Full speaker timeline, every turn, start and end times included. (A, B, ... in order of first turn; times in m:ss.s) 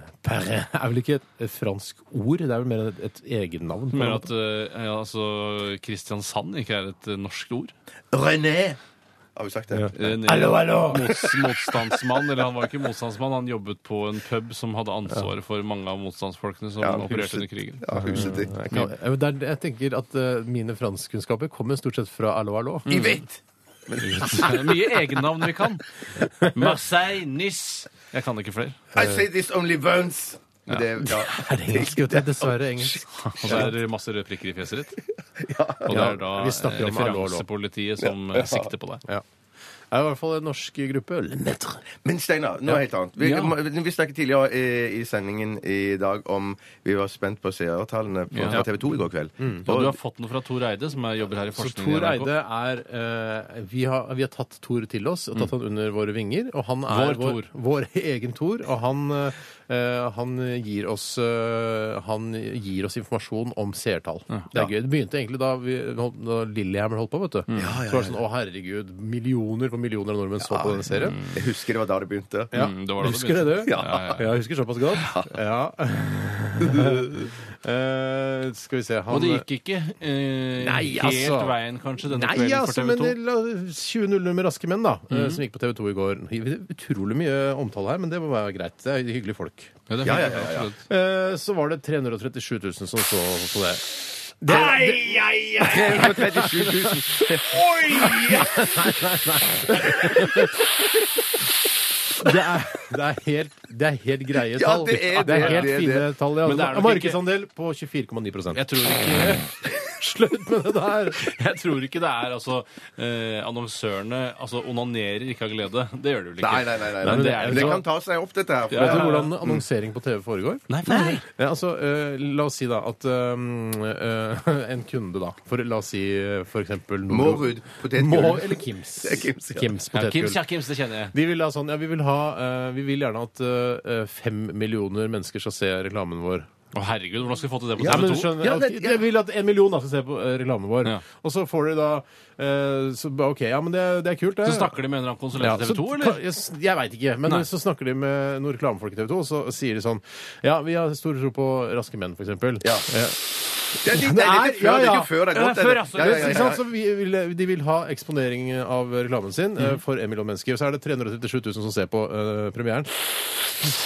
0:00.2-0:04.3 A
0:03.9-0:07.7 B
0:08.1-0:08.8 C
0:09.4-0:10.1 C
0:09.7-0:11.3 A
0:09.9-0:18.9 B
0:16.8-0:18.6 C
0:17.9-0:22.9 A
0:22.9-0:23.2 B
0:22.9-0:24.7 C
0:24.0-0:25.9 B
0:26.4-0:26.6 A
0:26.4-0:28.8 B
0:29.0-0:29.2 A
0:29.0-0:33.7 C
0:31.0-0:33.7 A
0:33.2-0:35.0 B
0:35.4-0:36.1 C
0:35.8-0:39.0 B
0:35.9-0:37.5 A
0:38.0-0:38.7 C
0:39.9-0:41.8 A
0:42.0-0:50.0 C
0:43.2-0:43.5 B
0:48.3-0:48.6 B
0:49.6-0:52.3 B
0:51.6-1:11.2 A
0:56.9-0:57.5 B
1:07.5-1:07.8 B
1:07.6-1:08.2 C
1:10.4-1:12.5 C
1:11.0-1:11.4 B
1:12.5-1:19.4 A
1:12.5-1:14.3 B
1:13.6-1:14.2 C
1:15.0-1:15.3 C
1:16.7-1:16.9 C
1:19.1-1:23.2 B
1:20.6-1:30.2 A
1:25.1-1:25.4 B
1:29.9-1:30.8 B
1:30.0-1:30.7 C
1:30.8-1:37.2 A
1:34.5-1:35.0 C
1:35.6-1:38.8 C
1:37.9-1:40.6 A
1:42.2-1:48.6 A
1:44.5-1:46.1 C
1:45.3-1:45.7 B
1:46.4-1:47.2 B
1:48.5-1:49.5 B
1:49.7-1:51.2 A
1:51.2-1:57.8 B
1:56.4-1:59.6 C
1:57.0-1:57.8 A
1:58.7-1:59.3 B
1:58.7-2:10.5 A
2:00.7-2:01.2 B
2:00.9-2:01.2 C
2:07.1-2:09.7 C
2:09.9-2:11.1 B
2:11.1-2:16.5 A
2:16.7-2:18.4 B
2:17.8-2:19.0 C
2:17.8-2:24.7 A
2:24.4-2:26.2 B
2:25.4-2:33.2 A
2:32.6-2:32.9 C
2:33.7-2:35.1 A
2:33.8-2:36.6 C
2:35.3-2:36.6 B
2:35.9-2:43.7 A